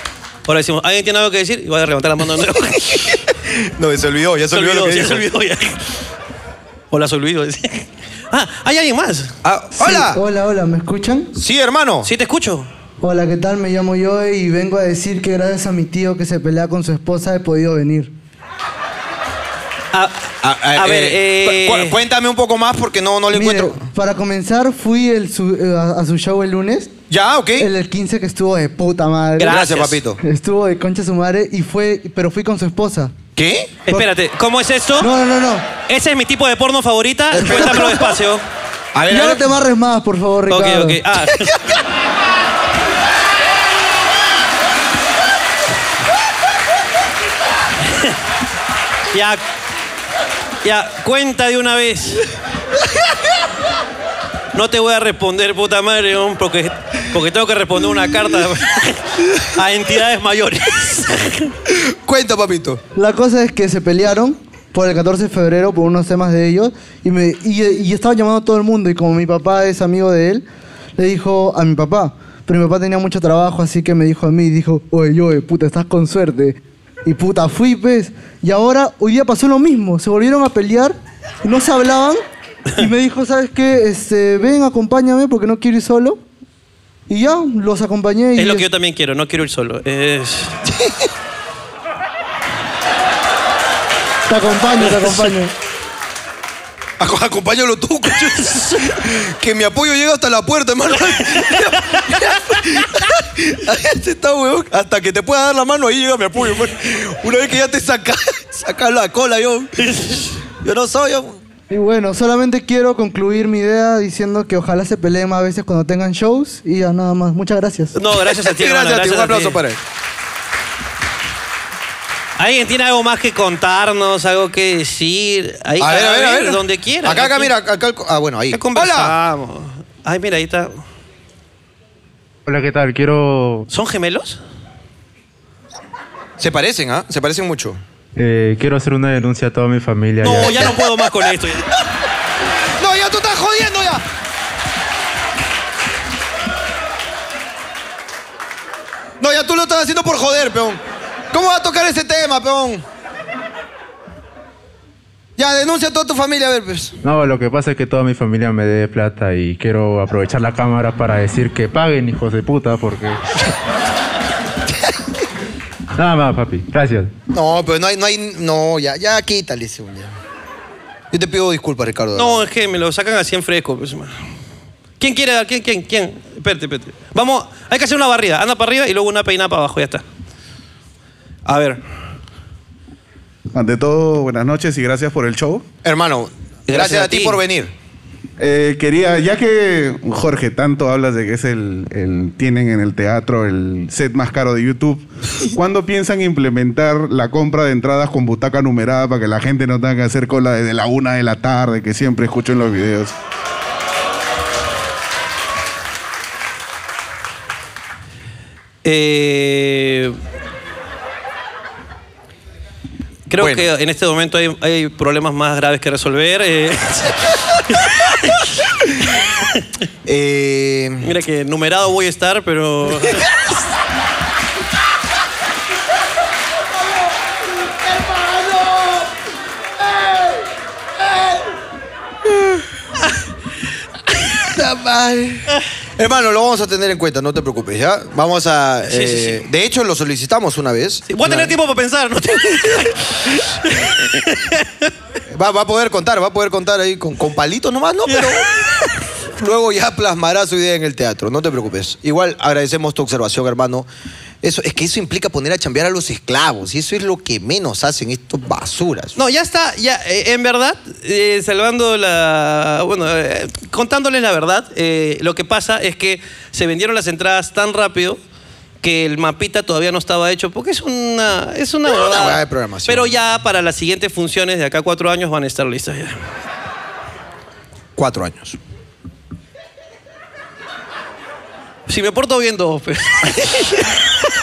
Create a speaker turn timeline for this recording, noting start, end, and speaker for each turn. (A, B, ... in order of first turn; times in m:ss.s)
0:00.5-0:03.2 A
0:03.3-0:05.3 B
0:04.5-0:06.0 A
0:06.9-0:09.4 A
0:09.4-0:10.2 B
0:09.8-0:11.3 C
0:11.3-0:12.1 B
0:12.0-0:12.7 A
0:13.0-0:18.1 C
0:19.9-0:22.0 A
0:20.4-0:23.8 B
0:23.3-0:26.9 C
0:27.1-0:27.7 B
0:27.6-0:29.6 C
0:29.4-0:30.0 A
0:29.4-0:30.2 B
0:30.2-0:33.1 C
0:33.4-0:33.8 B
0:33.9-0:35.1 A
0:35.0-0:35.6 C
0:35.8-0:38.4 A
0:37.3-0:38.1 B
0:37.4-0:38.0 C
0:38.9-0:39.5 B
0:39.1-0:41.0 C
0:40.5-0:41.6 A
0:47.9-0:48.2 A
0:49.1-0:49.4 A
0:50.6-0:52.3 A
0:54.5-1:01.5 A
1:01.7-1:02.8 B
1:03.0-1:10.4 C
1:11.0-1:22.2 C
1:22.8-1:26.2 C
1:27.1-1:28.7 C
1:28.4-1:30.6 A
1:30.6-1:31.1 B
1:34.3-1:35.5 C
1:37.0-1:51.4 B
1:38.4-1:38.8 A
1:49.8-1:50.4 A
1:51.7-1:58.0 C
1:58.0-1:59.6 A
1:58.1-1:59.8 B
2:02.4-2:07.5 A
2:05.8-2:09.2 B
2:08.5-2:10.8 A
2:12.5-2:13.7 D
2:13.7-2:14.4 A
2:16.4-2:17.8 B
2:18.2-2:20.8 D
2:20.2-2:21.7 A
2:22.8-2:24.0 B
2:29.2-2:30.8 B
2:31.3-2:32.8 B
2:35.4-2:37.0 B
2:37.0-2:43.2 D
2:46.0-2:47.1 D
2:47.3-2:50.1 B
2:51.1-2:52.4 B
2:52.2-2:54.1 A
2:55.0-3:00.0 A
3:01.5-3:01.8 A
3:03.5-3:05.6 E
3:05.8-3:07.7 B
3:06.7-3:07.4 A
3:08.4-3:23.2 E
3:28.8-3:30.2 A
3:33.3-3:38.5 A
3:33.4-3:33.7 B
3:39.2-3:39.7 A
3:40.0-3:41.1 B
3:41.0-3:43.3 A
3:48.0-3:49.0 B
3:49.9-3:50.4 B
3:51.1-3:51.4 B
3:54.3-4:01.6 B
3:58.9-3:59.4 A
4:01.1-4:04.9 A
4:05.3-4:08.5 B
4:08.1-4:08.4 A
4:09.4-4:13.9 B
4:14.4-4:19.2 B
4:19.2-4:28.2 A
4:28.8-4:36.2 A
4:31.9-4:33.2 B
4:38.0-4:38.6 B
4:41.9-4:43.9 A